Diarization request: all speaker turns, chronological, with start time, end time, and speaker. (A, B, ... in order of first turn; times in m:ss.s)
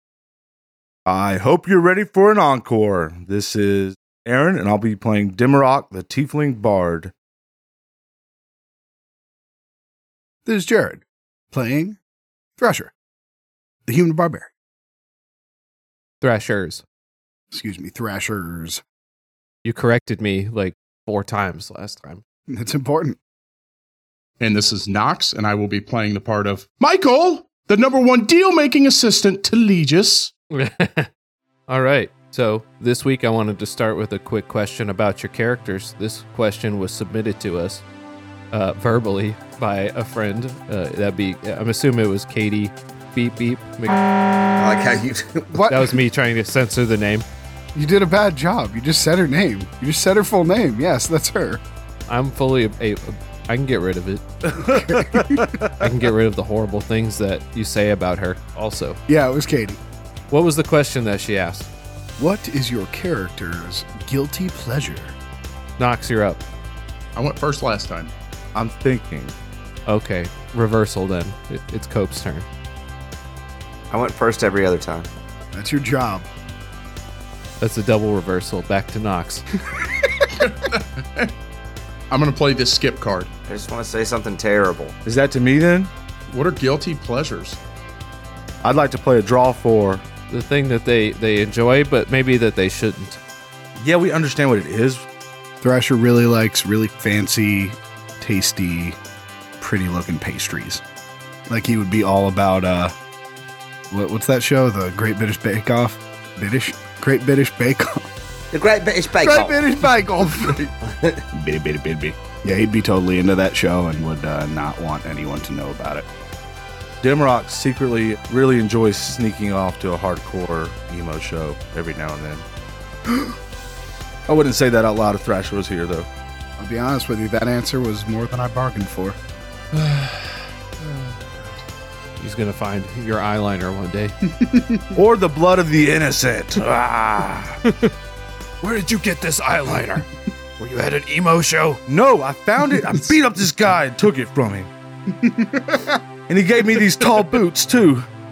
0:01.1-0:07.1 A
0:10.5-0:12.0 B
0:12.6-0:12.9 B
0:13.9-0:14.5 B
0:16.2-0:16.8 C
0:17.5-0:18.8 B
0:19.6-0:22.2 C
0:22.5-0:23.2 B
0:24.4-0:30.3 D
0:30.5-0:31.1 C
0:31.7-0:37.8 C
0:38.5-0:44.0 C
0:44.6-0:45.7 E
0:45.5-0:45.9 B
0:45.7-0:47.3 C
0:47.7-0:51.6 B
0:52.1-0:54.2 C
0:54.4-0:55.9 A
0:54.7-0:55.5 B
0:55.8-0:59.0 C
0:59.1-0:59.8 B
1:00.3-1:01.7 C
1:02.2-1:05.2 B
1:05.8-1:06.4 C
1:07.2-1:08.1 D
1:08.6-1:09.3 A
1:09.9-1:12.5 C
1:13.9-1:15.1 E
1:15.5-1:16.3 B
1:17.6-1:19.4 C
1:20.4-1:21.3 D
1:22.1-1:23.3 D
1:23.5-1:25.0 E
1:25.1-1:25.9 A
1:26.3-1:27.6 D
1:28.6-1:30.0 A
1:30.3-1:33.2 C
1:33.8-1:35.0 A
1:35.6-1:39.0 B
1:39.6-1:40.8 B
1:41.5-1:43.0 B
1:43.9-1:48.1 B
1:48.5-1:49.6 E
1:49.2-1:50.6 B
1:50.8-1:51.2 E
1:51.3-1:56.1 B
1:57.0-2:02.5 A
2:04.3-2:06.1 A
2:06.6-2:09.2 B
2:12.2-2:14.2 C
2:14.3-2:15.0 B
2:15.0-2:17.6 A
2:17.6-2:17.9 C
2:18.6-2:20.1 C
2:20.6-2:21.8 C
2:21.9-2:24.7 A
2:25.1-2:26.0 B
2:26.3-2:28.1 A